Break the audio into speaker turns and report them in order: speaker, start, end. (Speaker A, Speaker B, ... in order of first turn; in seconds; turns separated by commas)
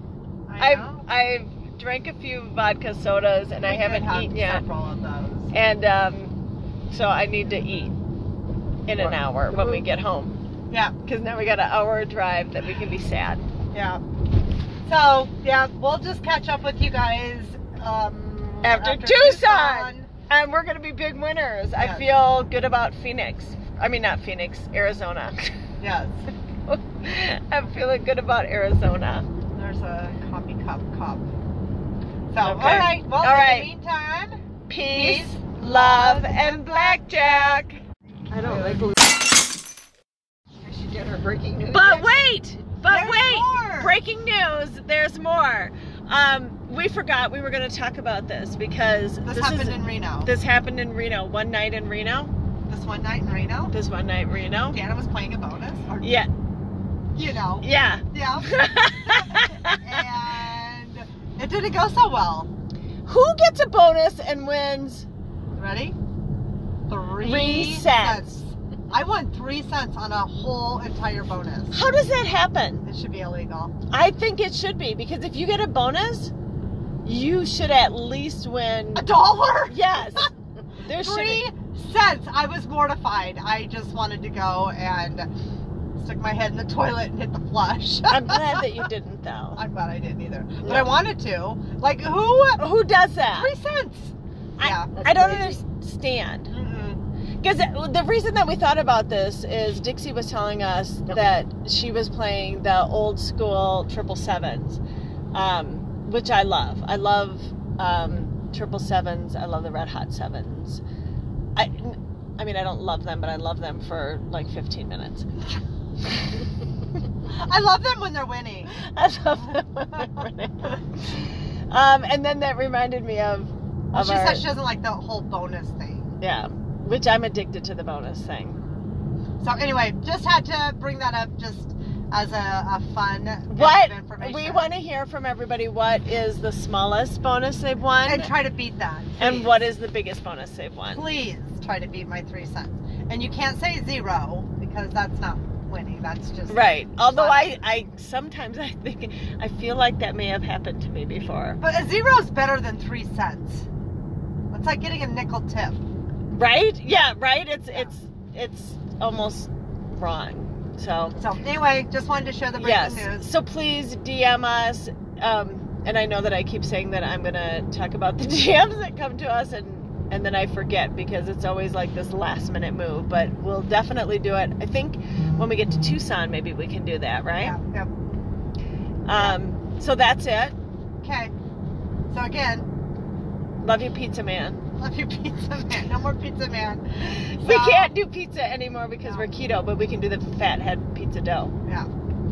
Speaker A: 0.5-1.0, Speaker B: 0.6-4.6, Speaker A: 3.6-5.5, Speaker B: 5.5-6.3, Speaker B: 6.9-7.9, Speaker B: 8.8-10.3, Speaker A: 10.7-10.9, Speaker B: 11.0-13.4, Speaker A: 13.7-14.0, Speaker A: 14.8-20.1, Speaker B: 18.6-25.5, Speaker A: 21.8-22.1, Speaker A: 25.8-26.3, Speaker B: 26.7-29.3, Speaker A: 29.5-31.2, Speaker A: 32.3-37.6, Speaker B: 32.4-33.7, Speaker B: 34.7-37.8, Speaker C: 38.3-39.1, Speaker A: 38.4-38.8, Speaker B: 38.4-38.9, Speaker C: 40.6-42.2, Speaker B: 41.7-52.3, Speaker A: 42.8-44.0, Speaker A: 49.2-50.3, Speaker A: 52.7-53.7, Speaker B: 53.7-54.8, Speaker A: 54.7-56.2, Speaker B: 56.0-56.3, Speaker A: 57.1-62.5, Speaker B: 57.6-59.8, Speaker B: 63.0-65.1, Speaker A: 65.5-66.0, Speaker A: 66.9-71.8, Speaker B: 67.2-68.3, Speaker B: 71.7-72.8, Speaker A: 72.8-73.7, Speaker B: 73.9-76.3, Speaker B: 77.0-79.1, Speaker A: 78.9-80.3, Speaker B: 79.7-80.3, Speaker B: 80.8-81.5, Speaker A: 80.9-85.3, Speaker A: 86.0-88.8, Speaker B: 88.1-89.6, Speaker A: 89.5-92.7, Speaker B: 92.6-93.5, Speaker A: 93.2-95.6, Speaker B: 94.6-96.5, Speaker C: 94.9-95.6, Speaker A: 96.5-97.0, Speaker B: 97.4-104.8, Speaker B: 105.3-110.8, Speaker B: 111.5-115.3, Speaker A: 117.3-118.7, Speaker B: 118.7-124.5, Speaker A: 123.9-126.1, Speaker B: 126.2-128.6, Speaker A: 129.4-134.7, Speaker B: 133.5-138.3, Speaker A: 138.0-139.7, Speaker B: 139.2-141.0, Speaker A: 140.9-147.7, Speaker B: 146.5-151.6, Speaker A: 151.6-153.7, Speaker A: 154.5-155.8, Speaker B: 156.3-161.2, Speaker A: 161.1-163.3, Speaker B: 162.6-177.6, Speaker A: 177.4-177.9, Speaker B: 179.1-180.5, Speaker A: 179.1-179.4, Speaker A: 181.0-181.3, Speaker A: 182.1-182.7, Speaker B: 183.6-184.6, Speaker A: 184.8-187.9, Speaker B: 187.0-191.5, Speaker A: 189.0-189.3